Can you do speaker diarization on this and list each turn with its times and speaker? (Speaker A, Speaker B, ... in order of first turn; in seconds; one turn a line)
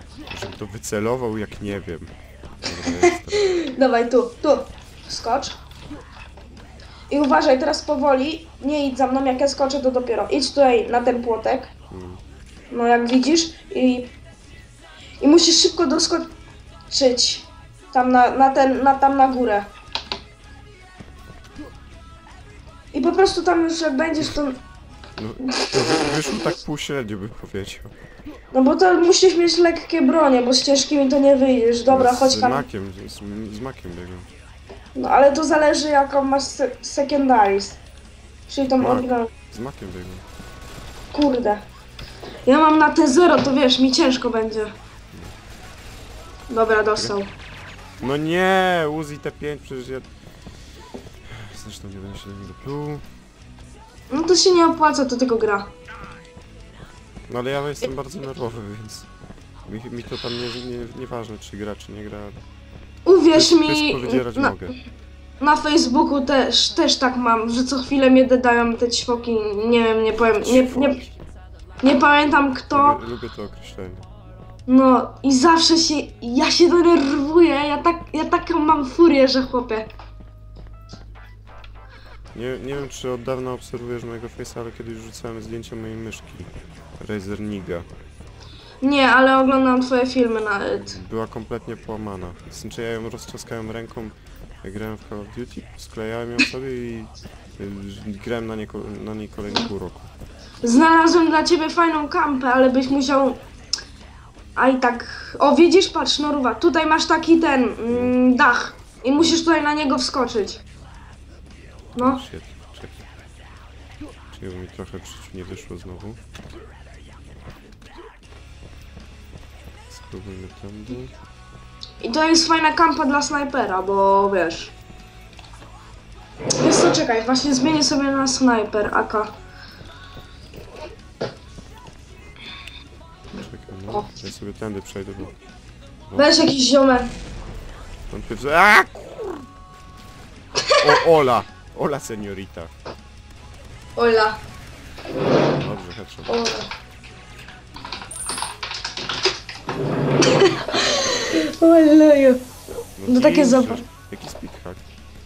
Speaker A: 0.3-3.6
Speaker B: 2.8-5.6
Speaker B: 7.1-11.7
Speaker A: 11.9-12.2
Speaker B: 12.7-14.1
Speaker B: 15.2-16.3
Speaker B: 16.9-19.7
Speaker B: 22.9-24.6
Speaker A: 25.2-27.9
Speaker B: 25.5-26.2
Speaker B: 28.5-32.6
Speaker A: 31.9-34.3
Speaker B: 34.9-37.8
Speaker B: 38.5-39.3
Speaker A: 38.8-40.2
Speaker B: 41.1-41.6
Speaker B: 42.5-44.7
Speaker B: 46.5-47.3
Speaker A: 48.0-50.1
Speaker A: 51.2-53.0
Speaker B: 54.1-55.7
Speaker A: 57.3-59.1
Speaker A: 59.6-62.4
Speaker B: 63.0-64.6
Speaker A: 63.3-64.8
Speaker B: 65.4-71.0
Speaker A: 70.3-71.1
Speaker B: 71.8-73.0
Speaker A: 72.7-74.1
Speaker B: 74.7-79.9
Speaker A: 82.3-87.9
Speaker B: 88.8-91.0
Speaker A: 90.7-100.1
Speaker B: 100.6-103.4
Speaker B: 104.5-110.6
Speaker A: 107.9-108.2
Speaker B: 112.0-112.2
Speaker A: 112.0-113.0
Speaker A: 114.3-116.2
Speaker A: 119.9-121.1
Speaker B: 122.0-124.7
Speaker B: 126.6-129.3
Speaker A: 133.3-135.3
Speaker A: 136.1-136.4
Speaker B: 136.1-137.1
Speaker A: 138.1-139.5
Speaker A: 140.8-142.7
Speaker B: 143.9-144.4
Speaker A: 145.4-146.4
Speaker B: 146.3-146.7
Speaker B: 150.2-152.4
Speaker A: 153.0-154.8
Speaker B: 153.1-153.8